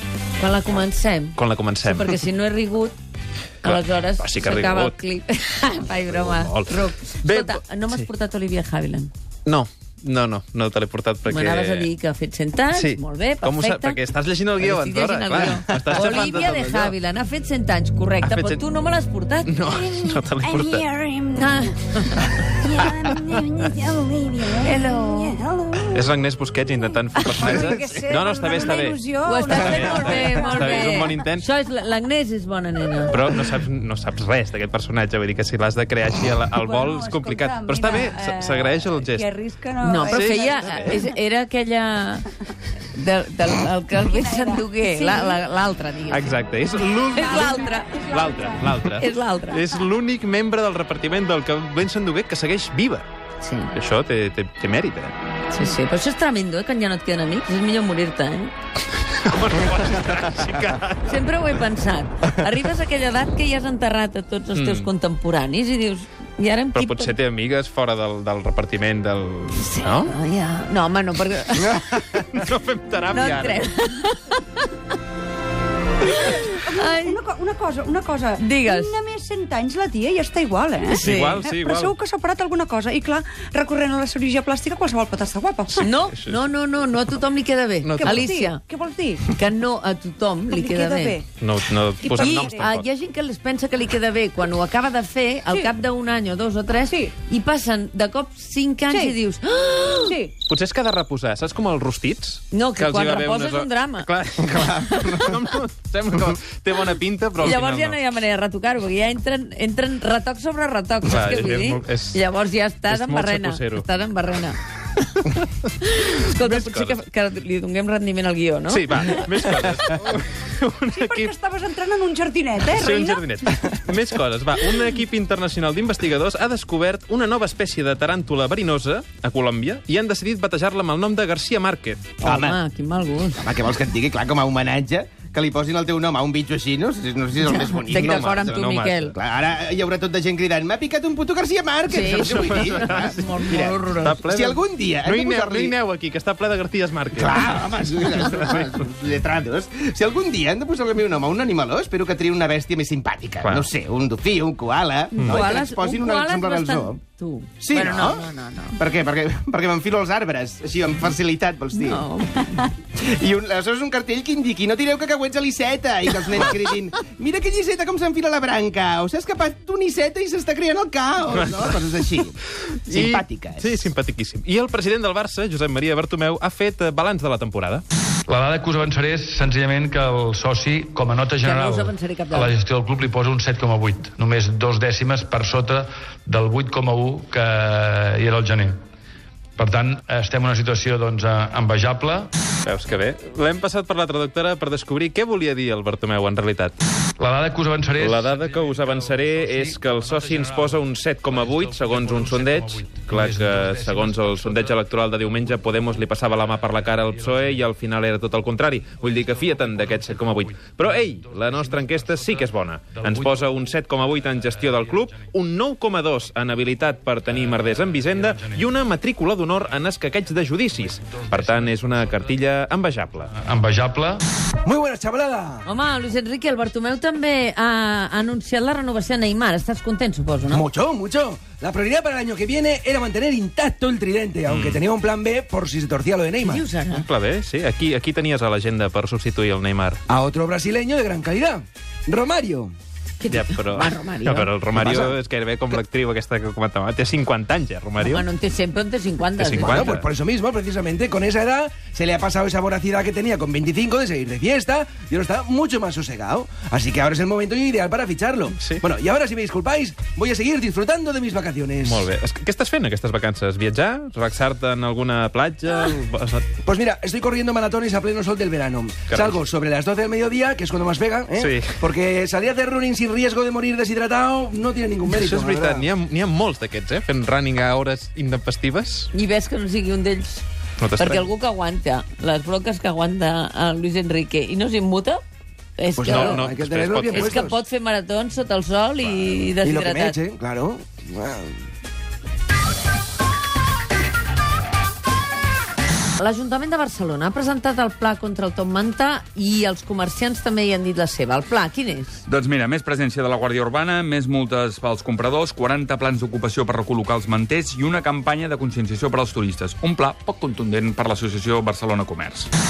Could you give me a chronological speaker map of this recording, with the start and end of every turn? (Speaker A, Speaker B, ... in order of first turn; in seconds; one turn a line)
Speaker A: 0.4-2.9
Speaker B: 1.4-2.2
Speaker B: 3.6-4.9
Speaker A: 3.6-9.1
Speaker B: 6.1-6.7
Speaker B: 7.2-8.1
Speaker B: 9.4-11.9
Speaker A: 11.3-14.0
Speaker B: 12.7-16.9
Speaker A: 14.6-19.6
Speaker B: 18.2-18.6
Speaker B: 19.4-20.8
Speaker C: 19.6-21.7
Speaker A: 21.4-22.3
Speaker C: 22.5-26.1
Speaker A: 24.6-25.4
Speaker B: 25.9-31.4
Speaker C: 27.3-31.2
Speaker A: 29.2-33.2
Speaker B: 33.1-39.3
Speaker C: 36.5-41.0
Speaker A: 39.8-42.3
Speaker B: 40.1-41.0
Speaker A: 42.9-46.4
Speaker C: 43.9-45.4
Speaker B: 46.1-53.0
Speaker C: 46.9-49.2
Speaker A: 47.1-48.0
Speaker A: 48.9-49.6
Speaker A: 53.4-53.7
Speaker B: 53.7-55.1
Speaker A: 55.5-58.5
Speaker B: 59.1-61.1
Speaker A: 61.0-67.1
Speaker B: 64.5-64.9
Speaker B: 66.7-70.1
Speaker A: 69.6-72.2
Speaker B: 71.7-73.7
Speaker A: 73.1-74.7
Speaker A: 76.0-77.2
Speaker C: 76.6-85.9
Speaker A: 78.4-78.9
Speaker A: 80.9-81.4
Speaker B: 80.9-81.9
Speaker A: 85.8-88.6
Speaker B: 85.8-86.4
Speaker B: 87.8-88.3
Speaker C: 88.0-89.2
Speaker A: 89.3-91.2
Speaker C: 90.5-91.3
Speaker B: 91.4-92.8
Speaker C: 92.0-92.7
Speaker A: 92.1-100.2
Speaker C: 98.9-99.2
Speaker C: 100.1-100.3
Speaker B: 100.5-108.0
Speaker A: 102.5-104.1
Speaker A: 104.6-105.3
Speaker A: 107.4-114.6
Speaker B: 111.0-112.2
Speaker B: 112.9-113.8
Speaker B: 115.2-115.7
Speaker A: 115.8-119.2
Speaker B: 116.3-117.0
Speaker B: 118.7-121.3
Speaker C: 120.9-123.4
Speaker B: 122.7-132.1
Speaker A: 132.2-133.5
Speaker D: 132.2-132.6
Speaker D: 133.4-138.6
Speaker A: 137.4-139.1
Speaker B: 137.8-139.2
Speaker D: 139.1-145.7
Speaker A: 141.9-144.2
Speaker B: 142.1-143.3
Speaker B: 144.0-148.8
Speaker D: 147.2-157.0
Speaker B: 155.2-155.5
Speaker A: 155.2-158.8
Speaker D: 157.6-162.0
Speaker A: 161.7-162.7
Speaker D: 162.9-173.9
Speaker B: 171.3-171.8
Speaker B: 172.8-177.8
Speaker E: 178.3-188.8
Speaker A: 181.4-182.5
Speaker E: 189.6-192.3
Speaker B: 192.6-196.7
Speaker E: 197.2-205.9
Speaker B: 198.0-223.3
Speaker E: 206.9-207.6
Speaker E: 209.1-215.2
Speaker E: 217.3-218.7
Speaker E: 220.5-222.4
Speaker E: 223.2-224.2
Speaker F: 224.6-225.6
Speaker A: 225.7-230.7
Speaker F: 230.5-236.7
Speaker B: 234.5-234.8
Speaker A: 236.4-237.1
Speaker B: 236.9-240.0
Speaker F: 240.1-242.7
Speaker A: 243.2-244.5
Speaker B: 243.3-248.2
Speaker F: 244.7-245.2
Speaker A: 248.0-249.9
Speaker B: 249.4-250.1
Speaker F: 249.6-262.1
Speaker B: 258.5-258.8
Speaker B: 261.8-266.4
Speaker F: 266.6-275.9
Speaker B: 269.1-269.4
Speaker B: 271.4-271.6
Speaker B: 275.1-279.1
Speaker A: 279.1-280.4
Speaker B: 280.8-281.3
Speaker A: 281.0-285.2
Speaker A: 285.8-286.4
Speaker F: 285.9-287.6
Speaker B: 286.0-287.4
Speaker A: 287.1-290.2
Speaker F: 289.6-291.6
Speaker A: 296.2-302.2
Speaker G: 302.2-312.5